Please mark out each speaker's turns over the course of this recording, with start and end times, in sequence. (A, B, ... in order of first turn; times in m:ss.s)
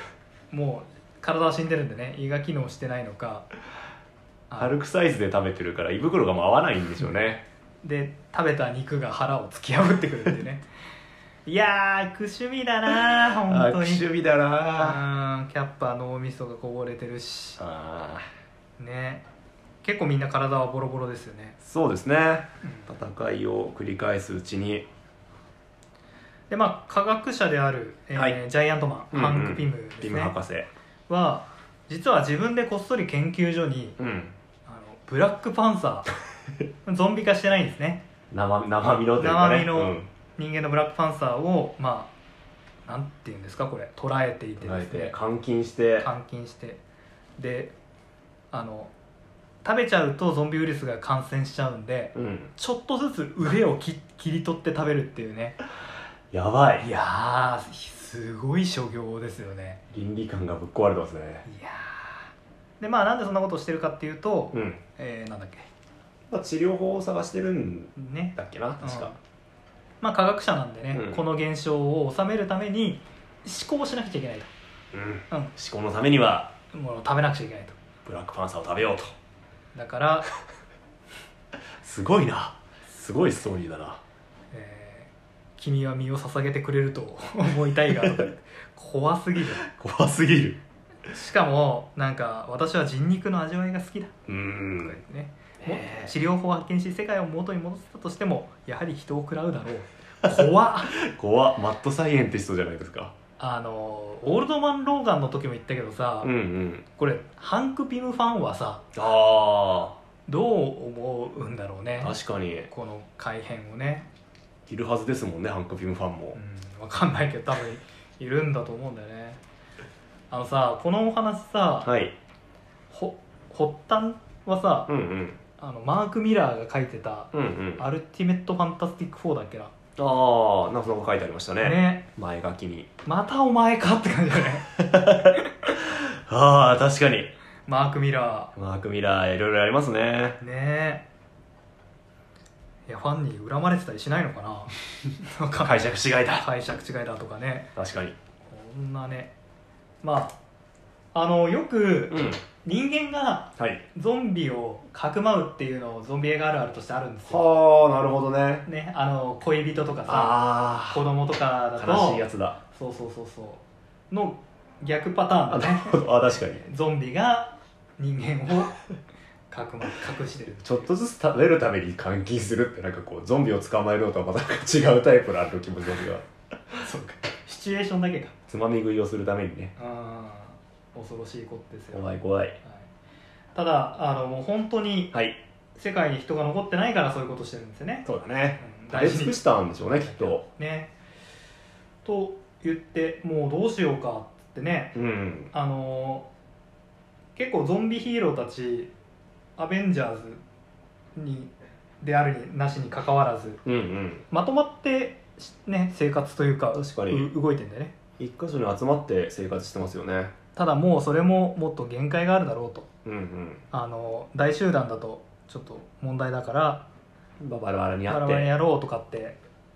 0:00.5-0:03.5 A
0:04.5-0:04.8 A
0:04.6-0:07.4 B
0:07.8-0:10.6 A
0:11.5-0:14.0 A
0:13.4-0:15.0 B
0:14.7-0:17.6 A
0:17.6-0:18.3 B
0:18.8-0:19.2 A
0:19.8-0:21.6 A
0:21.6-0:24.9 B
0:22.6-0:22.9 A
0:26.5-0:30.4 A
0:29.1-0:30.7 B
0:31.1-0:34.0 A
0:34.0-0:34.3 B
0:34.7-0:36.1 A
0:36.8-0:38.1 A
0:38.3-0:40.1 B
0:38.8-0:42.1 A
0:42.9-0:45.2 A
0:44.6-0:46.1 B
0:46.0-0:46.8 A
0:47.4-0:47.7 A
0:48.5-0:48.9 A
0:49.6-0:55.6 A
0:52.2-0:52.5 B
0:56.3-0:56.9 B
0:56.8-0:59.8 A
0:59.9-1:01.4 B
1:01.4-1:02.2 A
1:02.8-1:05.7 A
1:04.5-1:04.8 B
1:06.3-1:09.1 B
1:08.0-1:09.2 A
1:10.0-1:14.5 A
1:10.9-1:11.2 B
1:14.9-1:16.5 B
1:16.7-1:17.8 A
1:18.0-1:19.1 B
1:19.8-1:20.3 A
1:21.8-1:24.0 B
1:24.5-1:29.7 A
1:29.6-1:30.6 B
1:31.1-1:41.0 A
1:34.3-1:35.0 B
1:35.6-1:36.1 B
1:41.0-1:43.1 B
1:43.4-1:46.3 A
1:46.2-1:46.8 B
1:47.0-1:48.8 A
1:49.0-1:50.0 B
1:50.3-1:52.2 A
1:52.0-1:52.7 B
1:52.7-1:54.1 A
1:54.7-1:56.4 B
1:56.3-1:59.4 A
2:00.3-2:01.9 A
2:01.8-2:02.2 B
2:02.9-2:04.9 A
2:04.9-2:05.4 B
2:05.6-2:09.7 A
2:07.3-2:07.8 B
2:10.0-2:12.9 B
2:11.6-2:12.0 A
2:13.0-2:15.5 A
2:14.7-2:17.3 B
2:17.7-2:18.5 A
2:18.6-2:20.4 B
2:20.4-2:21.1 A
2:22.9-2:27.7 A
2:25.6-2:26.5 B
2:27.8-2:28.2 B
2:28.5-2:29.3 A
2:30.0-2:30.4 A
2:31.1-2:37.4 A
2:32.1-2:32.4 B
2:37.3-2:38.7 B
2:38.7-2:48.8 A
2:40.1-2:41.0 B
2:41.8-2:42.6 B
2:45.5-2:46.6 B
2:49.5-2:50.7 A
2:50.6-2:56.9 B
2:56.8-2:58.4 A
2:58.5-2:59.8 B
2:59.8-3:02.9 A
3:01.9-3:02.6 B
3:03.6-3:05.2 A
3:05.1-3:05.4 B
3:05.8-3:08.1 A
3:08.1-3:10.4 B
3:08.6-3:10.9 A
3:12.0-3:15.0 A
3:15.0-3:15.5 B
3:15.5-3:16.3 A
3:17.4-3:18.9 A
3:19.6-3:20.4 A
3:21.2-3:23.6 A
3:23.6-3:24.2 B
3:24.3-3:28.0 A
3:26.7-3:27.3 B
3:28.2-3:30.3 B
3:30.6-3:32.9 A
3:33.0-3:33.6 B
3:33.7-3:36.9 A
3:37.4-3:38.5 B
3:38.1-3:39.4 A